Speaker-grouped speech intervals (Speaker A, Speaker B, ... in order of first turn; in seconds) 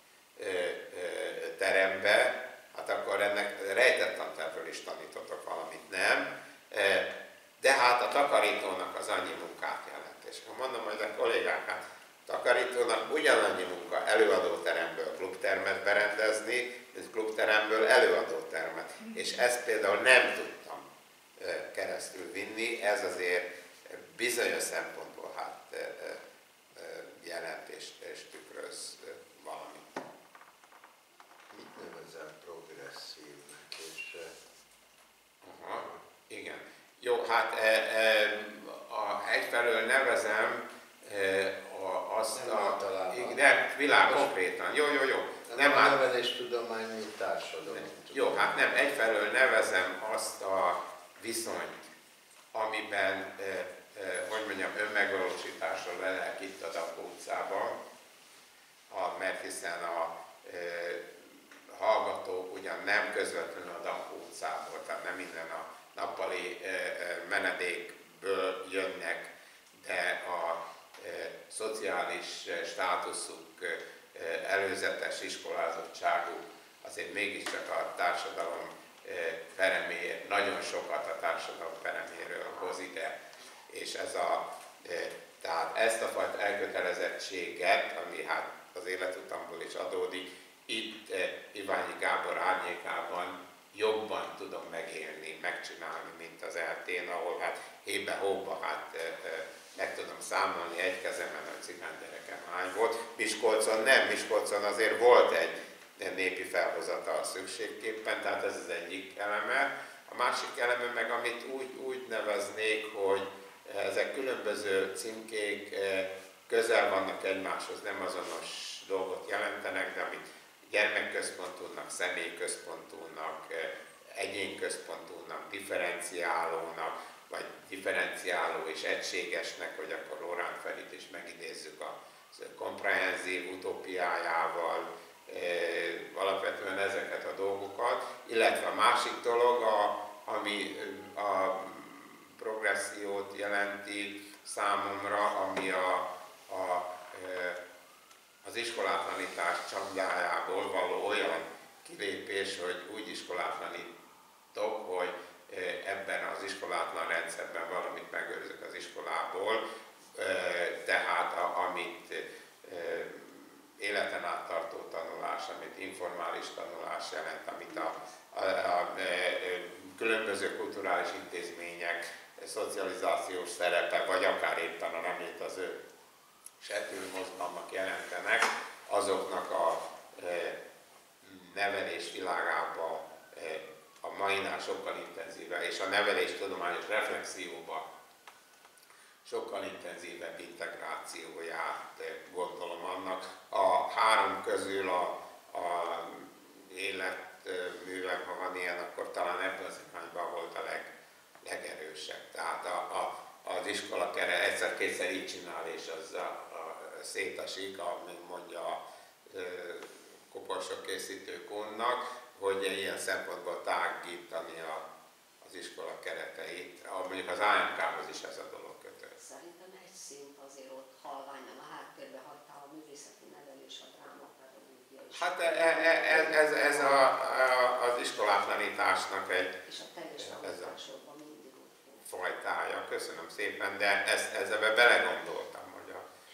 Speaker A: 0.3-20.8, 21.4-26.2, 26.7-30.0, 35.4-46.1, 47.7-51.9, 52.5-57.8, 58.9-83.2, 83.7-147.6, 148.4-153.9, 154.5-159.6, 160.1-175.8, 176.6-180.6, 181.2-187.9, 189.2-200.9, 201.4-214.8, 215.4-219.2, 225.1-229.6, 230.2-230.8, 232.0-236.0
Speaker B: 31.5-34.3, 35.7-36.0, 42.3-44.3, 45.5-48.7
Speaker C: 219.2-227.2, 229.6-232.0